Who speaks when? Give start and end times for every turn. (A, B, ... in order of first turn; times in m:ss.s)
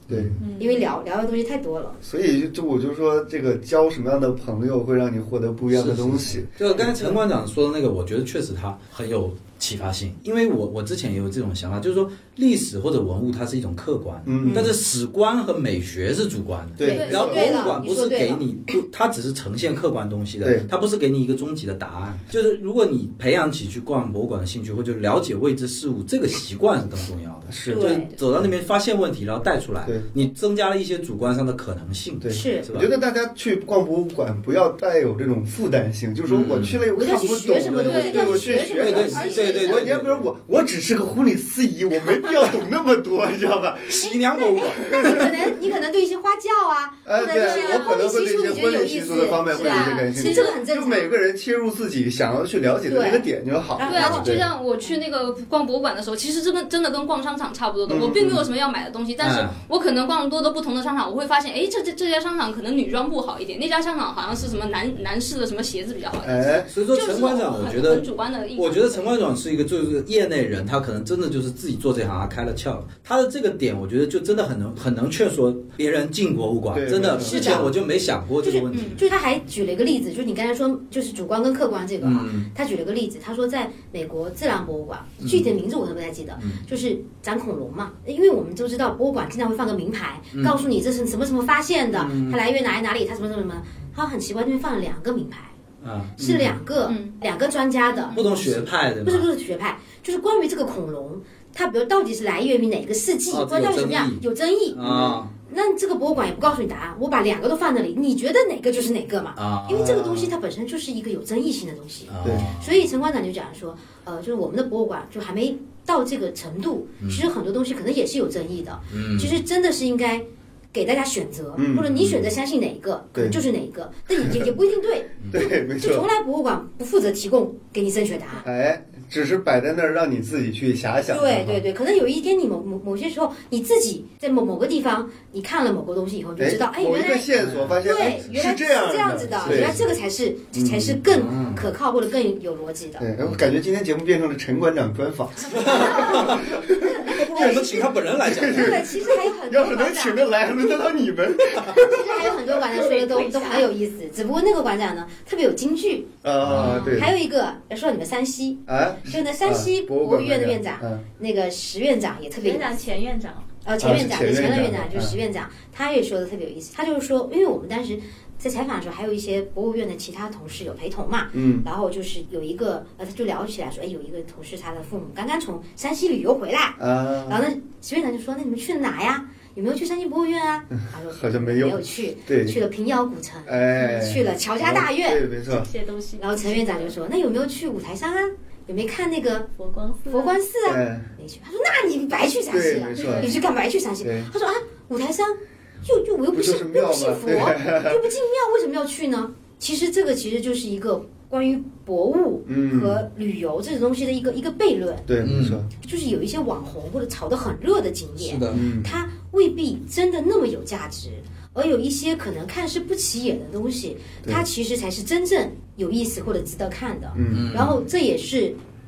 0:00.1-0:00.4 A
0:00.1-0:00.4 B
0:00.4-0:00.8 C
0:00.6-0:02.0 D
0:02.0-0:07.2 B
0:05.7-0:32.9 A
0:14.2-0:14.8 B
0:14.4-0:14.7 D
0:16.8-0:17.7 B
0:16.8-0:18.5 D
0:16.9-0:17.2 E
0:20.4-0:20.7 B
0:27.5-0:28.0 B
0:27.7-0:28.1 D
0:32.2-0:45.5 B
0:32.3-0:32.7 D
0:36.3-0:36.8 A
0:36.9-0:39.8 D
0:37.8-0:38.6 E
0:38.6-0:40.3 A
0:43.9-0:45.0 A
0:44.0-0:51.2 D
0:47.0-0:54.5 B
0:47.4-0:47.9 E
0:49.6-0:50.5 E
0:52.9-0:54.4 D
0:53.8-1:09.1 E
0:57.9-0:58.4 B
0:59.2-0:59.6 A
1:06.2-1:06.7 B
1:06.7-1:19.0 A
1:16.7-1:17.8 B
1:17.2-1:17.7 D
1:18.4-1:35.5 D
1:22.0-1:22.5 A
1:25.2-1:25.5 A
1:26.4-1:26.6 A
1:31.9-1:32.4 A
1:35.8-1:36.5 A
1:36.2-2:08.5 D
1:36.9-1:37.2 E
1:37.9-1:38.2 E
1:38.1-1:39.3 A
1:43.3-1:45.3 A
1:44.8-1:45.2 B
1:49.4-1:50.3 A
1:52.1-1:52.7 A
1:52.2-1:52.5 B
1:57.0-1:57.3 A
1:58.9-1:59.3 A
2:01.6-2:02.3 B
2:05.3-2:06.1 B
2:08.4-2:11.6 B
2:11.1-2:17.3 D
2:16.4-2:19.9 B
2:17.4-2:18.0 A
2:17.8-2:23.1 D
2:19.4-2:19.8 A
2:20.5-2:21.2 B
2:21.1-2:21.6 A
2:23.0-2:32.5 B
2:25.5-2:26.5 A
2:25.6-2:27.9 D
2:27.1-2:28.9 A
2:28.4-2:30.5 D
2:31.7-2:42.7 D
2:32.6-2:33.7 C
2:36.2-2:37.1 B
2:36.4-2:36.9 A
2:38.7-2:41.0 B
2:42.4-2:43.5 C
2:43.6-3:05.2 D
2:43.8-2:45.2 B
2:51.3-2:51.7 B
2:56.8-2:57.4 B
3:01.1-3:02.6 B
3:03.5-3:05.7 B
3:05.5-3:07.0 C
3:06.2-3:09.5 D
3:09.6-3:10.4 C
3:10.1-3:25.1 D
3:10.6-3:11.1 B
3:12.5-3:13.3 B
3:12.9-3:13.4 C
3:14.0-3:14.3 B
3:16.3-3:18.0 B
3:22.5-3:23.0 B
3:25.1-3:25.7 B
3:25.2-3:25.6 A
3:25.8-3:38.6 D
3:28.2-3:28.6 A
3:28.5-3:29.0 B
3:37.2-3:37.6 B
3:37.3-3:37.8 A